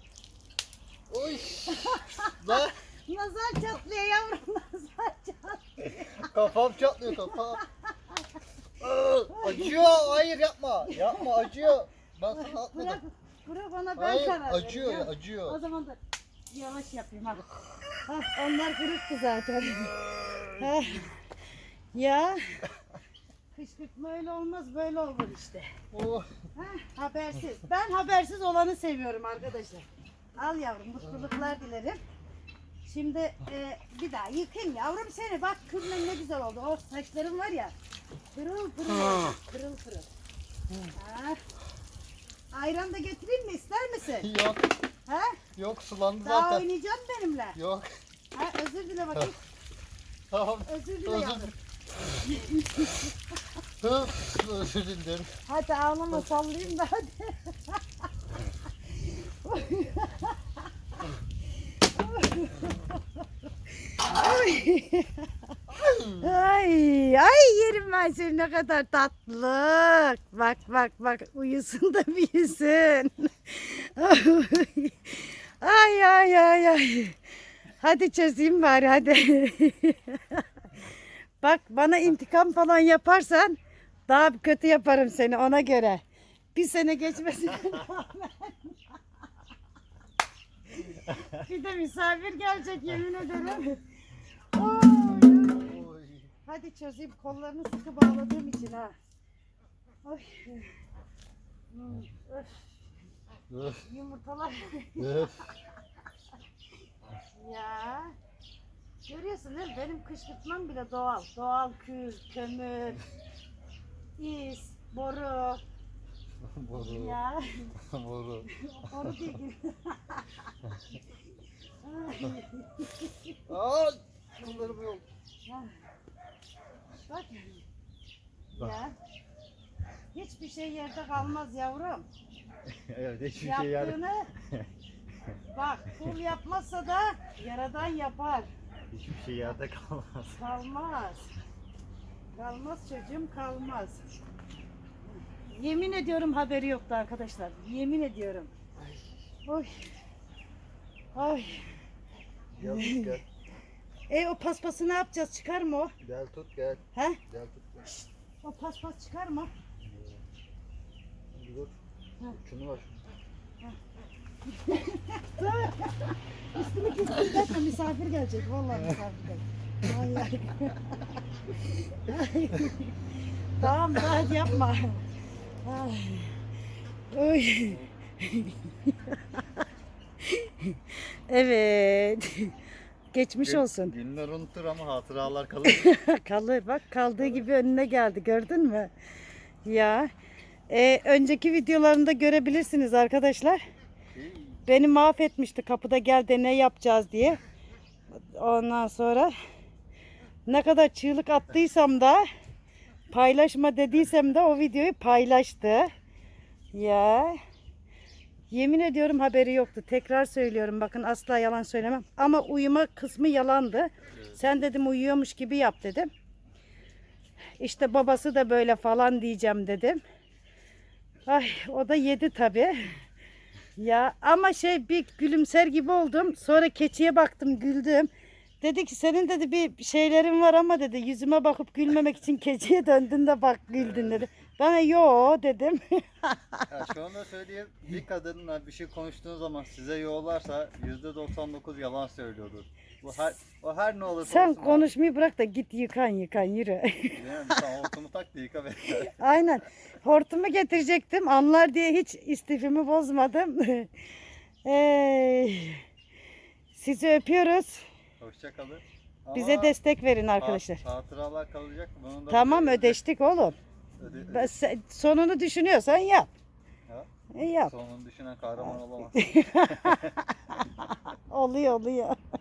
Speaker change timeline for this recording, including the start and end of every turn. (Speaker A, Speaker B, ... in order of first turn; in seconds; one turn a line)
Speaker A: 1.1-2.8
Speaker B: 1.6-6.3
Speaker A: 5.8-7.6
Speaker B: 7.0-8.2
Speaker A: 8.8-13.0
Speaker B: 9.3-10.2
Speaker B: 10.8-11.7
Speaker B: 12.3-16.0
Speaker A: 14.0-15.6
Speaker B: 16.5-17.4
Speaker B: 18.0-21.2
Speaker A: 20.2-20.8
Speaker B: 21.9-22.6
Speaker B: 23.5-25.7
Speaker A: 25.9-26.3
Speaker B: 26.6-32.0
Speaker B: 32.8-37.7
Speaker B: 38.3-40.1
Speaker B: 40.9-41.4
Speaker B: 42.5-44.3
Speaker A: 44.2-44.7
Speaker B: 45.1-45.4
Speaker A: 45.5-46.6
Speaker B: 46.2-47.6
Speaker A: 47.5-47.9
Speaker B: 48.3-49.4
Speaker A: 50.3-51.5
Speaker B: 50.6-51.5
Speaker B: 52.2-53.1
Speaker A: 53.8-55.3
Speaker B: 55.5-57.8
Speaker B: 58.9-60.6
Speaker B: 61.8-63.2
Speaker B: 63.8-77.2
Speaker B: 77.8-80.9
Speaker B: 81.4-86.0
Speaker B: 86.5-89.0
Speaker B: 90.8-93.8
Speaker A: 91.1-91.4
Speaker B: 94.5-95.8
Speaker A: 95.6-96.3
Speaker B: 96.5-98.9
Speaker B: 100.0-100.7
Speaker B: 101.7-102.7
Speaker A: 103.5-103.8
Speaker B: 103.8-105.6
Speaker A: 105.0-105.5
Speaker B: 107.3-108.2
Speaker B: 109.1-113.0
Speaker B: 114.2-115.6
Speaker A: 116.4-117.2
Speaker B: 116.7-117.7
Speaker A: 117.8-119.4
Speaker B: 118.5-120.5
Speaker B: 121.8-123.4
Speaker A: 123.5-125.1
Speaker B: 125.4-125.7
Speaker B: 127.1-127.6
Speaker B: 128.5-128.9
Speaker B: 130.1-132.1
Speaker A: 132.7-134.7
Speaker B: 133.4-134.3
Speaker B: 135.5-138.5
Speaker A: 138.9-140.4
Speaker B: 140.3-141.3
Speaker B: 142.3-144.0
Speaker B: 145.1-148.5
Speaker A: 148.8-149.0
Speaker B: 149.4-149.9
Speaker B: 151.1-151.7
Speaker A: 152.5-153.2
Speaker B: 152.6-153.1
Speaker B: 154.1-155.9
Speaker A: 156.0-157.9
Speaker B: 156.9-157.2
Speaker B: 158.4-159.5
Speaker A: 159.8-160.2
Speaker A: 161.3-161.7
Speaker A: 162.3-163.0
Speaker B: 164.5-173.0
Speaker B: 173.6-175.0
Speaker B: 175.6-176.4
Speaker B: 177.1-179.6
Speaker A: 177.6-177.9
Speaker B: 180.2-182.6
Speaker B: 183.1-183.9
Speaker A: 183.4-185.9
Speaker B: 185.7-188.9
Speaker B: 189.7-190.1
Speaker B: 190.7-193.6
Speaker A: 194.1-194.6
Speaker B: 194.7-197.4
Speaker B: 198.1-199.3
Speaker B: 200.4-202.3
Speaker B: 203.1-205.9
Speaker B: 206.7-207.4
Speaker B: 208.5-216.1
Speaker B: 217.6-220.0
Speaker B: 221.3-223.0
Speaker B: 223.8-228.1
Speaker B: 228.6-236.7
Speaker A: 233.8-234.3
Speaker A: 236.7-244.9
Speaker B: 244.2-247.6
Speaker A: 247.1-249.2
Speaker B: 249.0-253.9
Speaker B: 254.7-255.8
Speaker B: 256.7-257.8
Speaker A: 258.2-259.8
Speaker B: 259.3-260.8
Speaker A: 260.4-263.0
Speaker B: 262.3-263.6
Speaker A: 264.0-264.6
Speaker B: 264.1-266.3
Speaker B: 267.3-267.7
Speaker A: 267.6-270.2
Speaker B: 269.1-272.2